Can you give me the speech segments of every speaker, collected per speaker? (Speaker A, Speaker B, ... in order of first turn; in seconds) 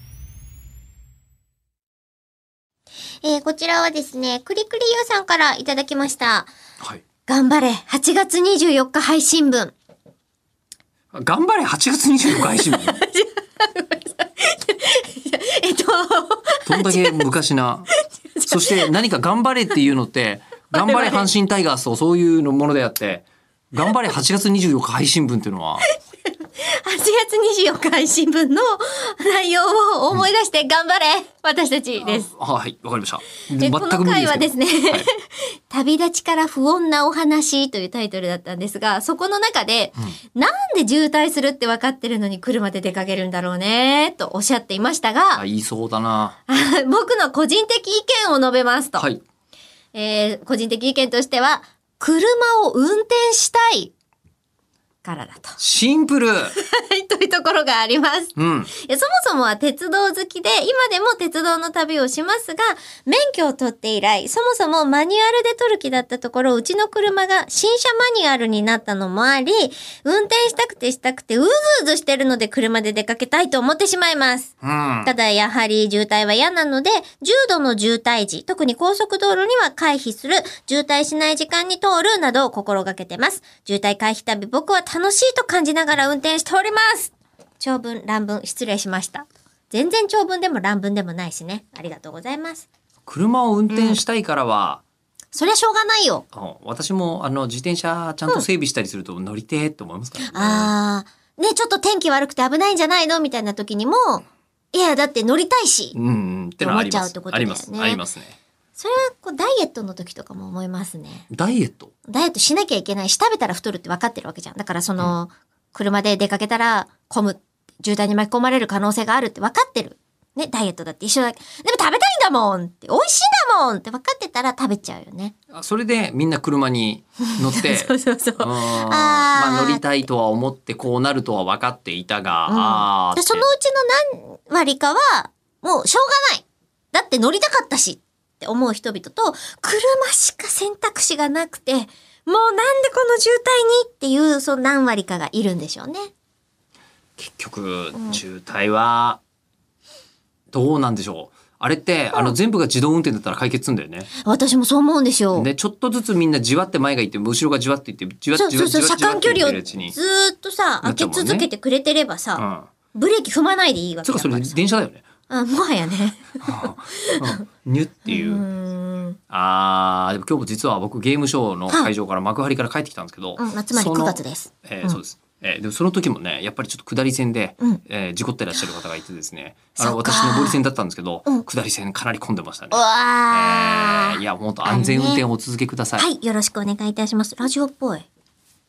Speaker A: 3.2-6.5, 7.3-9.7, 12.4-17.2, 18.0-18.9, 20.7-21.3, 26.6-32.3, 33.6-45.4, 46.5-49.1, 49.9-53.9, 55.0-55.6, 56.5-74.5, 75.0-92.7, 93.7-94.0, 95.3-96.2, 100.3-106.0, 106.6-108.0, 108.8-111.3, 112.1-125.3, 127.2-129.8, 132.5-146.1, 154.2-155.5, 158.3-164.6, 165.3-167.4, 168.1-169.2, 173.4-175.0, 179.8-180.6, 182.7-185.2, 186.0-188.1
Speaker B: 11.1-12.9, 16.7-17.9, 18.5-25.8, 32.0-35.1, 45.4-46.4, 55.6-56.5, 58.4-58.7, 74.6-75.1, 93.1-94.8, 96.3-100.7, 106.0-108.4, 111.3-111.9, 125.5-133.5, 147.2-149.2, 150.5-154.1, 155.3-159.9, 160.8-161.5, 162.4-162.7, 164.1-165.1, 166.4-168.4, 169.3-186.1